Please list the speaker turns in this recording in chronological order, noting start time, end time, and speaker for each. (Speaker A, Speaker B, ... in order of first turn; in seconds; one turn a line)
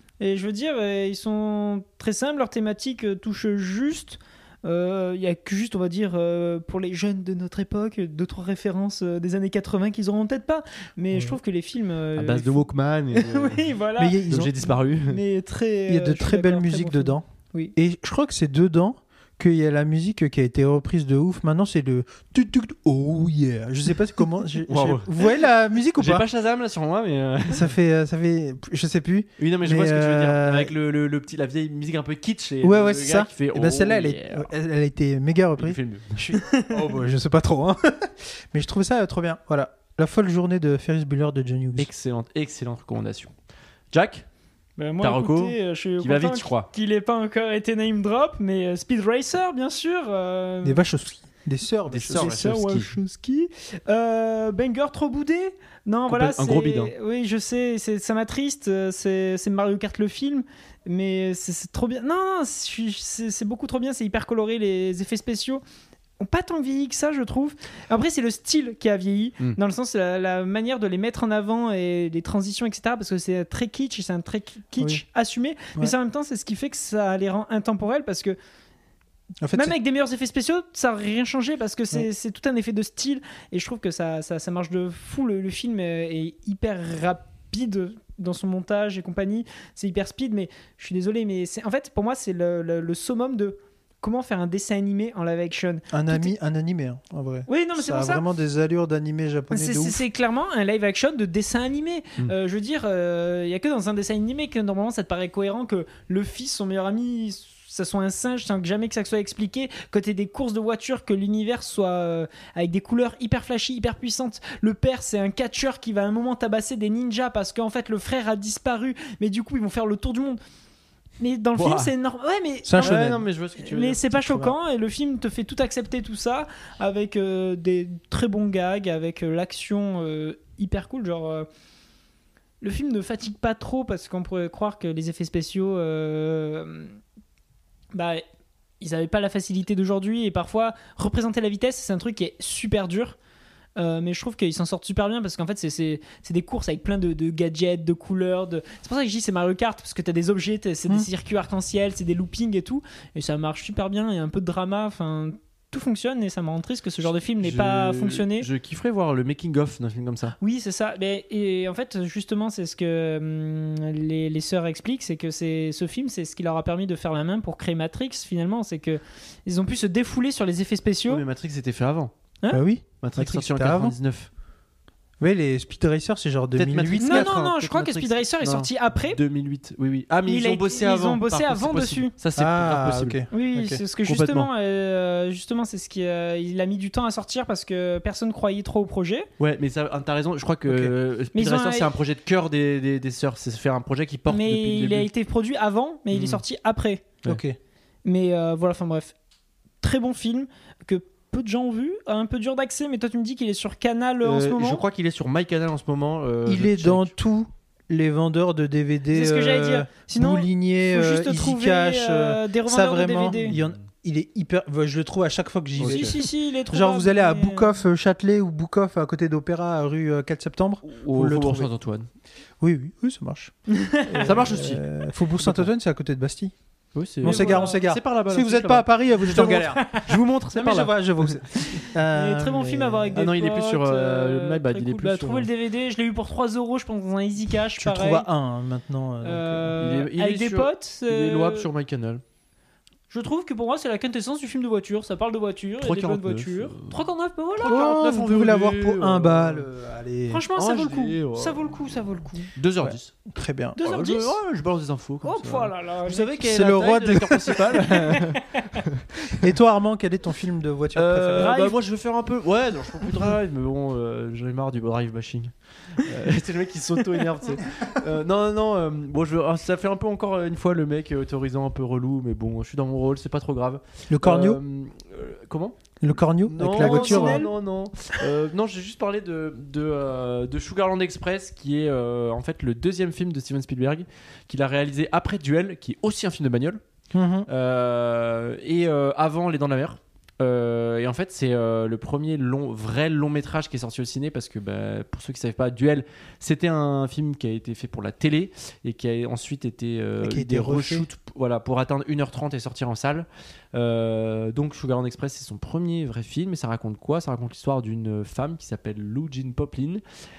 Speaker A: 0.2-14.3
Speaker B: 11.1-11.4
Speaker C: 12.2-13.8
Speaker B: 14.0-14.7
Speaker C: 14.3-15.2
Speaker A: 15.1-17.7
Speaker B: 15.9-17.2
Speaker B: 17.8-26.2
Speaker C: 24.7-25.1
Speaker C: 26.0-27.7
Speaker B: 27.5-30.7
Speaker C: 29.4-34.5
Speaker B: 32.6-41.9
Speaker C: 35.6-36.3
Speaker A: 36.3-36.9
Speaker C: 41.8-43.3
Speaker C: 43.9-44.2
Speaker A: 44.8-50.8
Speaker C: 45.0-46.7
Speaker B: 50.6-52.4
Speaker C: 51.9-52.9
Speaker A: 52.1-65.6
Speaker C: 56.1-56.9
Speaker A: 66.2-78.3
Speaker B: 79.4-79.7
Speaker A: 79.5-96.3
Speaker B: 95.9-100.0
Speaker A: 97.5-98.2
Speaker A: 99.5-120.4
Speaker A: 121.2-123.0
Speaker C: 121.5-121.9
Speaker B: 122.6-123.2
Speaker C: 122.8-124.0
Speaker A: 123.5-131.5
Speaker B: 124.2-124.5
Speaker A: 132.6-137.0
Speaker A: 137.9-138.2
Speaker A: 138.8-143.2
Speaker A: 143.8-158.5
Speaker C: 157.4-160.3
Speaker A: 160.4-171.2
Speaker C: 171.1-172.1
Speaker B: 172.5-173.9
Speaker C: 173.0-174.3
Speaker B: 175.2-177.3
Speaker C: 176.6-183.2
Speaker A: 177.0-179.2
Speaker A: 180.3-182.1
Speaker B: 182.3-183.8
Speaker A: 183.3-189.3
Speaker C: 184.0-184.5
Speaker C: 189.4-195.1
Speaker B: 190.7-190.9
Speaker A: 191.3-191.9
Speaker A: 194.3-197.1
Speaker C: 196.1-196.4
Speaker B: 197.2-197.6
Speaker A: 198.0-199.1
Speaker A: 199.8-204.8
Speaker C: 204.2-207.1
Speaker B: 206.4-221.7
Speaker A: 209.1-213.6
Speaker C: 213.5-213.8
Speaker C: 215.8-216.1
Speaker A: 215.9-217.7
Speaker C: 220.8-222.1
Speaker B: 222.6-226.5
Speaker A: 223.7-224.3
Speaker C: 224.2-225.7
Speaker C: 226.9-231.4
Speaker B: 227.2-229.8
Speaker A: 227.2-227.8
Speaker A: 229.3-230.1
Speaker B: 230.5-233.2
Speaker A: 231.6-238.2
Speaker C: 233.1-235.5
Speaker B: 237.7-239.8
Speaker A: 239.2-241.7
Speaker C: 239.8-242.2
Speaker A: 243.1-247.8
Speaker C: 245.8-247.0
Speaker C: 247.6-249.7
Speaker B: 247.6-250.4
Speaker A: 250.3-252.5
Speaker C: 250.5-251.8
Speaker C: 252.6-253.1
Speaker B: 252.8-253.8
Speaker A: 253.8-254.3
Speaker C: 253.8-259.4
Speaker A: 255.2-256.7
Speaker B: 256.4-258.1
Speaker A: 257.3-258.8
Speaker B: 259.3-261.6
Speaker C: 260.9-275.9
Speaker A: 261.4-261.8
Speaker B: 274.1-274.6
Speaker B: 276.0-277.4
Speaker C: 276.4-286.8
Speaker A: 276.7-277.5
Speaker B: 287.1-287.5
Speaker C: 287.5-310.0
Speaker B: 300.2-301.1